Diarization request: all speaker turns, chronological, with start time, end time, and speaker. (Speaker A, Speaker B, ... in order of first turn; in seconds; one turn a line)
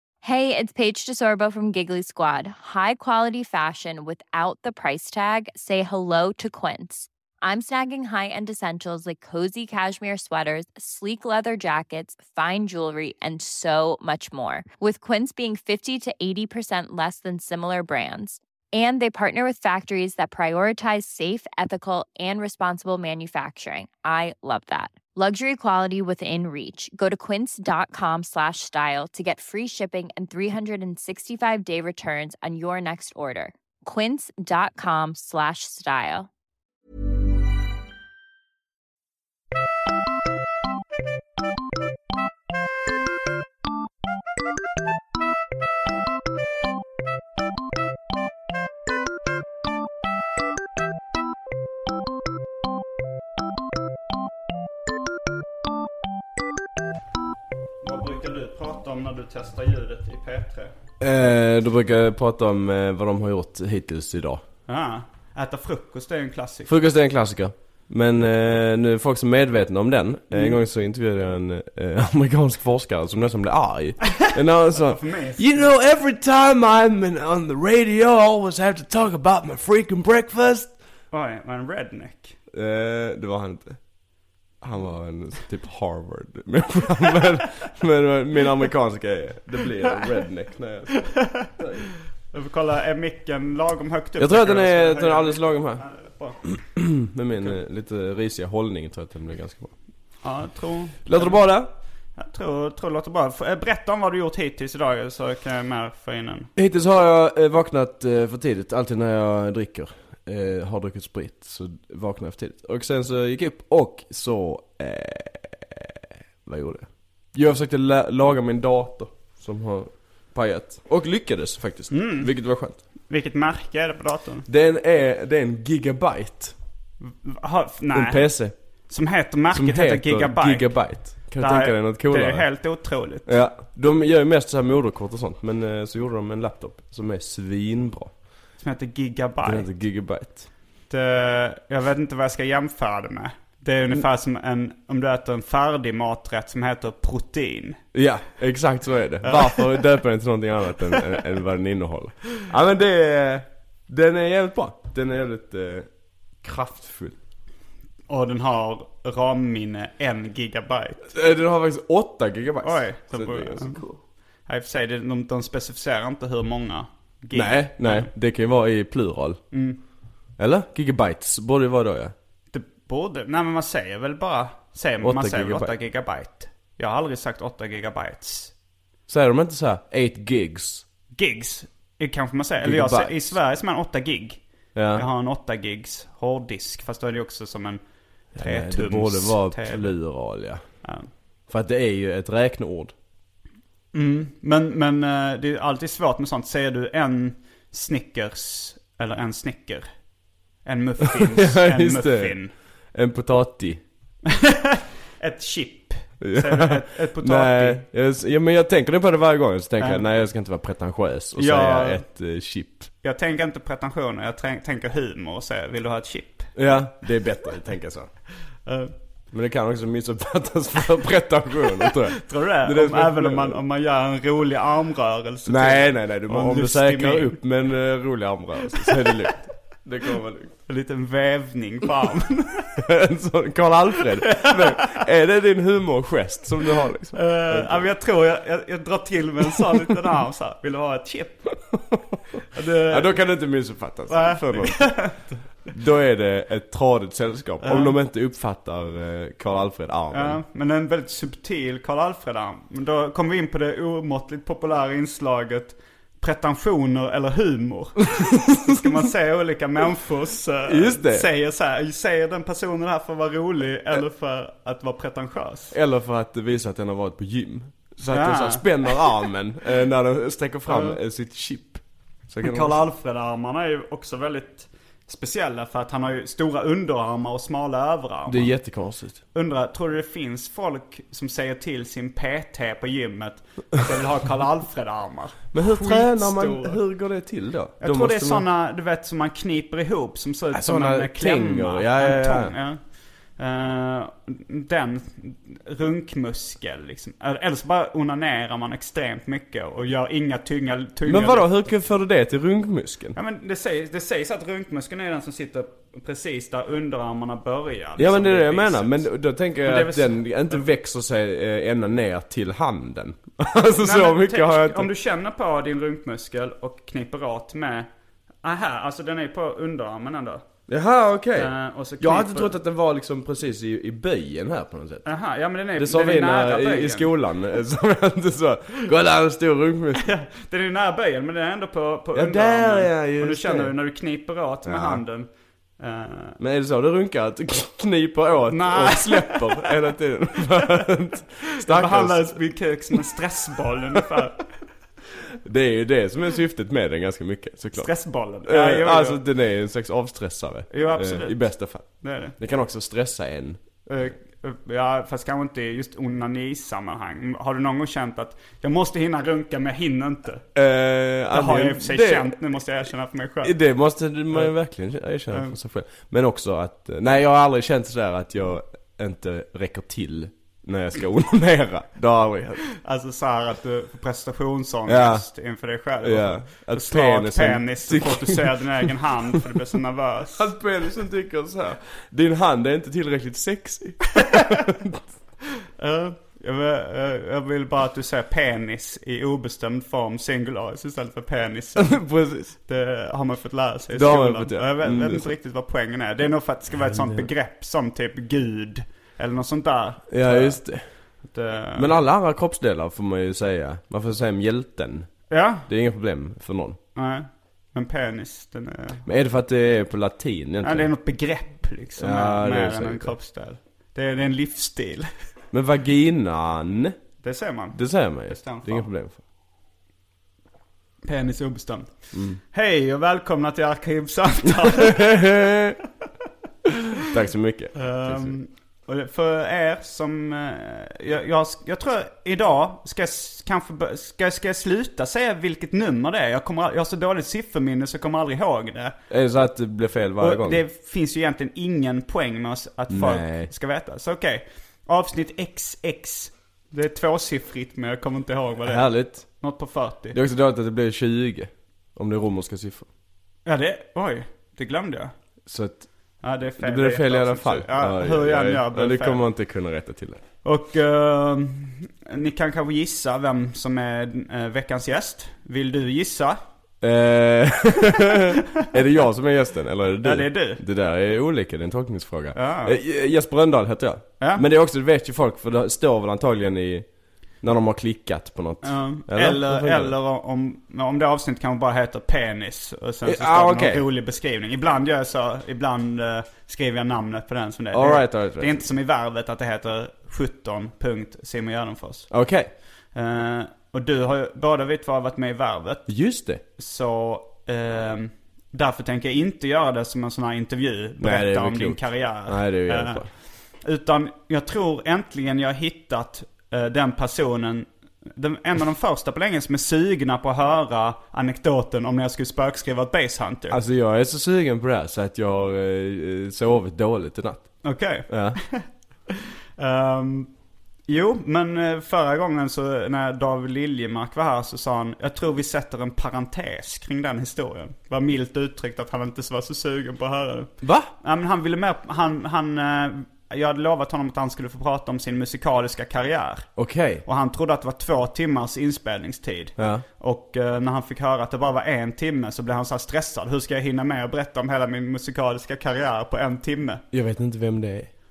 Speaker A: 0.2-36.3
Speaker B: 57.8-60.7
Speaker C: 61.0-64.4
Speaker B: 64.7-66.7
Speaker C: 66.7-80.7
Speaker B: 70.3-70.6
Speaker B: 74.7-75.7
Speaker B: 81.1-82.4
Speaker C: 82.5-83.8
Speaker C: 84.6-91.9
Speaker B: 92.3-96.4
Speaker C: 94.2-95.8
Speaker C: 96.5-99.7
Speaker B: 100.2-101.4
Speaker C: 101.1-101.7
Speaker B: 102.2-106.5
Speaker C: 106.6-122.8
Speaker B: 121.9-122.3
Speaker B: 123.1-124.5
Speaker C: 124.5-126.6
Speaker B: 127.0-128.2
Speaker C: 127.9-128.6
Speaker B: 128.9-133.3
Speaker C: 129.5-132.5
Speaker C: 133.3-138.1
Speaker B: 138.6-139.7
Speaker C: 139.4-140.5
Speaker B: 140.9-147.8
Speaker C: 147.9-155.9
Speaker B: 149.2-149.7
Speaker C: 156.4-157.2
Speaker B: 158.1-161.1
Speaker C: 161.1-164.0
Speaker B: 162.6-163.8
Speaker B: 164.5-168.1
Speaker C: 167.3-169.4
Speaker B: 169.5-169.8
Speaker C: 170.4-172.1
Speaker B: 172.5-178.5
Speaker C: 175.0-175.8
Speaker C: 179.1-180.8
Speaker B: 181.1-184.4
Speaker C: 182.6-183.4
Speaker C: 184.8-185.1
Speaker B: 184.9-187.8
Speaker B: 188.3-189.9
Speaker C: 188.3-190.6
Speaker B: 190.8-191.1
Speaker C: 191.5-192.9
Speaker B: 193.9-199.9
Speaker B: 200.7-202.5
Speaker C: 201.0-202.4
Speaker C: 202.9-203.8
Speaker B: 204.3-207.8
Speaker C: 206.2-212.9
Speaker B: 211.4-212.0
Speaker B: 213.0-216.5
Speaker C: 216.6-218.1
Speaker B: 218.7-218.9
Speaker C: 219.3-223.6
Speaker B: 222.2-227.3
Speaker C: 225.5-230.5
Speaker B: 230.7-232.8
Speaker C: 232.8-237.9
Speaker B: 234.3-234.8
Speaker B: 237.1-241.6
Speaker B: 242.5-243.1
Speaker C: 242.6-250.4
Speaker B: 244.1-245.4
Speaker B: 247.6-248.0
Speaker B: 250.1-265.8
Speaker C: 258.1-258.9
Speaker C: 260.6-261.3
Speaker C: 265.7-272.8
Speaker B: 268.1-268.9
Speaker B: 270.7-271.0
Speaker B: 272.4-278.5
Speaker C: 278.3-279.2
Speaker B: 279.3-286.8
Speaker C: 285.5-288.5
Speaker B: 287.8-292.8
Speaker C: 290.5-292.6
Speaker B: 293.4-301.5
Speaker C: 301.1-303.2
Speaker B: 303.1-309.0
Speaker C: 308.0-314.9
Speaker B: 309.6-310.6
Speaker B: 313.8-317.9
Speaker B: 318.4-320.4
Speaker C: 320.7-325.1
Speaker B: 321.4-322.5
Speaker B: 325.1-327.1
Speaker C: 325.8-330.1
Speaker B: 330.0-336.4
Speaker C: 332.1-333.7
Speaker C: 334.6-335.0
Speaker C: 336.4-342.4
Speaker B: 338.5-339.7
Speaker B: 340.5-340.8
Speaker B: 341.7-344.4
Speaker C: 345.4-347.9
Speaker B: 347.8-349.2
Speaker C: 348.4-353.6
Speaker B: 350.7-351.4
Speaker B: 351.9-352.4
Speaker B: 353.9-360.5
Speaker C: 360.6-362.4
Speaker B: 361.3-363.5
Speaker C: 363.4-372.7
Speaker B: 372.8-380.5
Speaker C: 374.9-375.3
Speaker C: 376.0-379.6
Speaker C: 380.3-385.0
Speaker B: 385.8-392.0
Speaker C: 391.8-392.6
Speaker B: 392.6-400.6
Speaker C: 393.9-395.3
Speaker C: 396.8-397.3
Speaker C: 400.1-400.9
Speaker B: 401.2-401.9
Speaker C: 401.8-406.8
Speaker B: 405.3-405.7
Speaker B: 406.9-409.0
Speaker C: 409.1-410.9
Speaker B: 410.6-415.1
Speaker C: 412.0-413.1
Speaker C: 415.5-417.0
Speaker B: 417.2-418.9
Speaker C: 417.8-419.2
Speaker B: 421.0-421.9
Speaker C: 422.1-422.4
Speaker B: 422.5-425.2
Speaker C: 424.6-425.8
Speaker C: 427.0-428.4
Speaker B: 427.8-439.0
Speaker C: 439.1-440.6
Speaker B: 440.2-450.2
Speaker C: 442.9-443.5
Speaker C: 448.6-449.3
Speaker C: 450.1-452.9
Speaker B: 453.5-455.1
Speaker C: 455.5-455.9
Speaker B: 456.2-459.2
Speaker C: 456.6-460.2
Speaker B: 460.4-466.4
Speaker C: 466.8-476.9
Speaker B: 470.0-470.6
Speaker B: 472.4-472.8
Speaker C: 477.4-479.9
Speaker B: 478.6-492.1
Speaker C: 483.0-483.9
Speaker C: 487.7-488.7
Speaker C: 492.1-492.5
Speaker B: 492.9-495.9
Speaker C: 495.9-496.4
Speaker B: 496.6-503.1
Speaker C: 501.0-503.1
Speaker B: 503.6-513.6
Speaker C: 513.5-518.4
Speaker B: 517.6-520.3
Speaker B: 520.9-536.5
Speaker C: 530.6-530.9
Speaker C: 536.6-537.0
Speaker B: 537.0-546.8
Speaker C: 539.6-539.8
Speaker C: 546.9-547.9